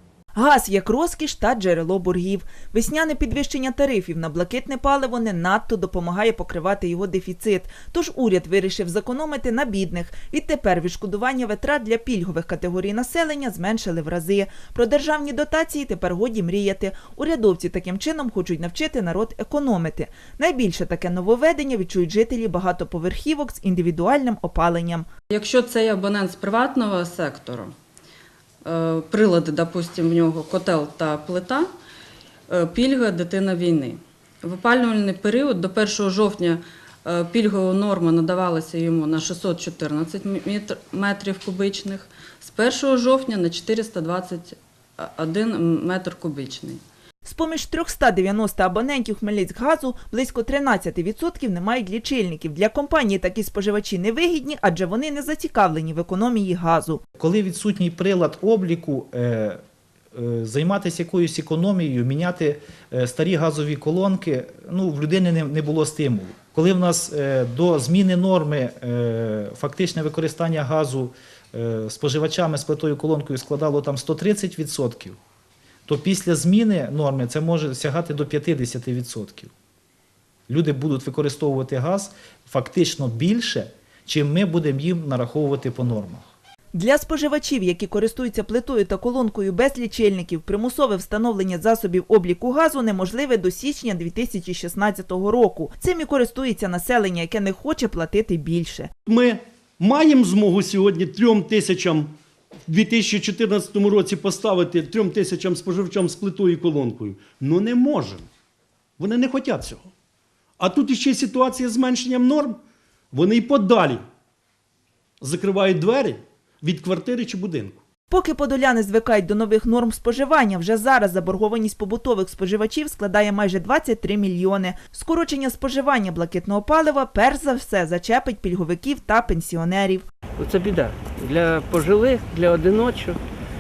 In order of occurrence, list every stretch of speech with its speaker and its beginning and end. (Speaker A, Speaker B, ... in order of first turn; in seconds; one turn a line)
Speaker A: 0.3-25.1
Speaker B: 25.3-27.7
Speaker B: 28.6-31.7
Speaker B: 32.5-46.8
Speaker A: 47.2-57.0
Speaker C: 57.2-59.6
Speaker C: 60.1-75.2
Speaker C: 75.9-79.5
Speaker C: 80.5-86.3
Speaker A: 86.7-98.9
Speaker D: 99.1-102.1
Speaker D: 102.7-108.3
Speaker D: 109.0-109.9
Speaker D: 110.6-112.6
Speaker D: 113.1-114.0
Speaker D: 115.2-117.8
Speaker A: 118.1-130.0
Speaker E: 130.4-133.2